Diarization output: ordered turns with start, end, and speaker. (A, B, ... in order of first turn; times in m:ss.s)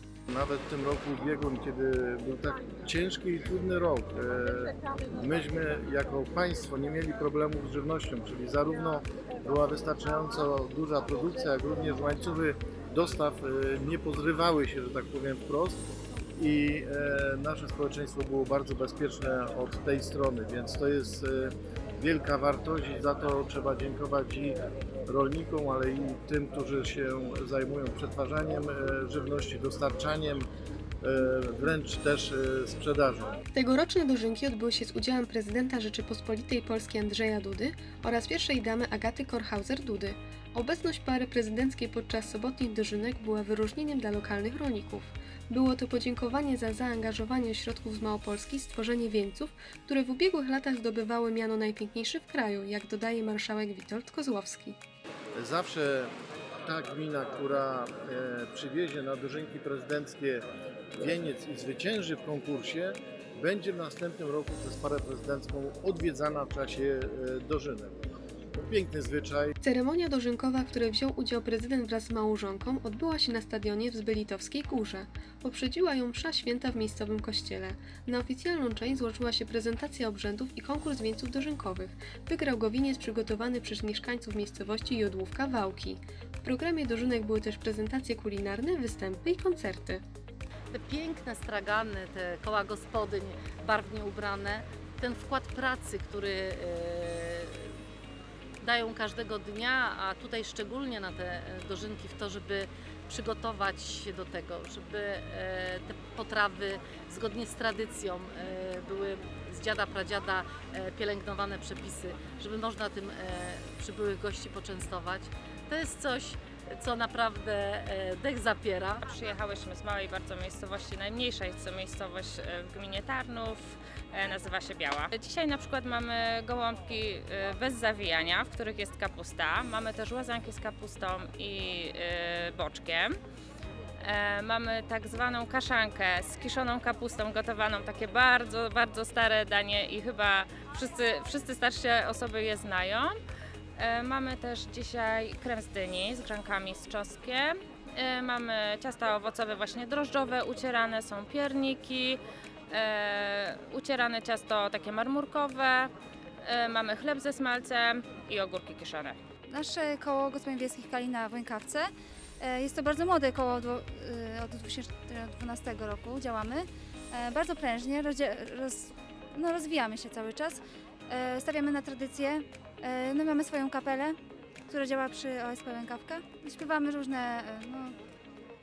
0:00.3-0:15.8 A
0:16.4-0:30.5 A
0:31.0-0:33.4 A
0:33.5-0:54.8 B
0:55.4-0:56.1 A
0:56.6-1:00.4 A
1:01.0-1:08.0 A
1:08.6-1:09.6 A
1:09.6-1:30.0 B
1:30.7-1:37.7 C
1:38.6-1:59.0 C
1:59.0-2:13.2 D
2:14.0-2:23.2 D
2:23.8-2:39.2 D
2:39.5-2:54.2 E
2:54.7-2:58.0 E